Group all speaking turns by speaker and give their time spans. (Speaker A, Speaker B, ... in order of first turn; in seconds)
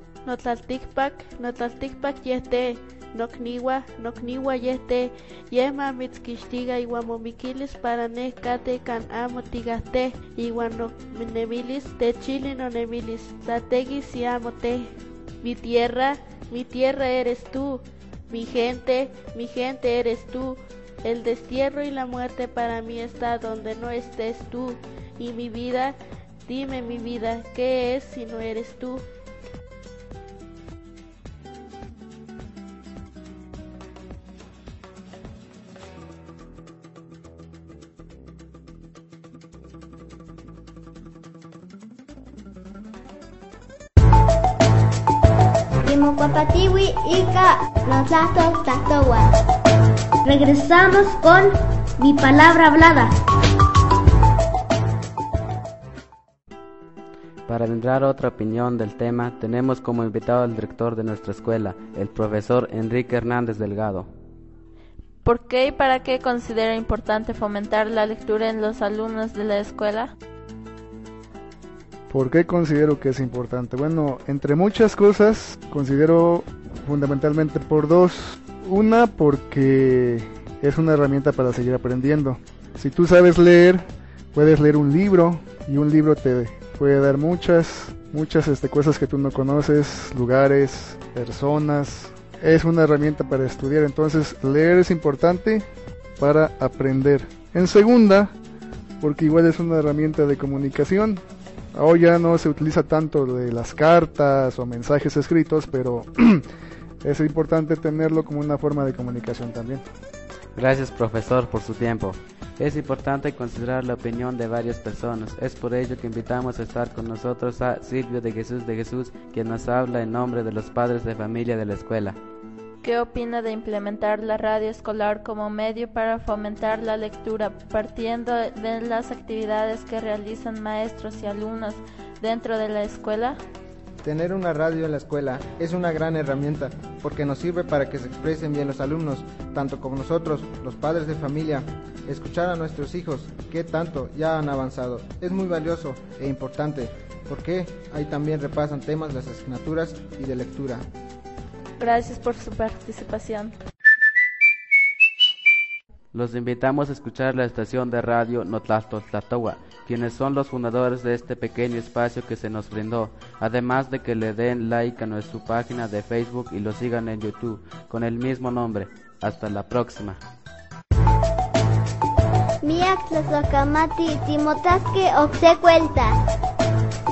Speaker A: 0.2-14.9, 15.4-26.0, 26.5-29.0
Speaker B: 45.8-49.3, 50.2-53.1, 172.6-176.2
Speaker C: 57.5-64.1, 110.6-122.2, 156.1-170.2
Speaker D: 65.2-70.1, 122.8-133.4, 151.8-153.6
Speaker E: 72.1-95.6, 96.2-98.3, 99.0-101.2, 101.7-106.4, 107.0-109.8
Speaker F: 134.0-150.9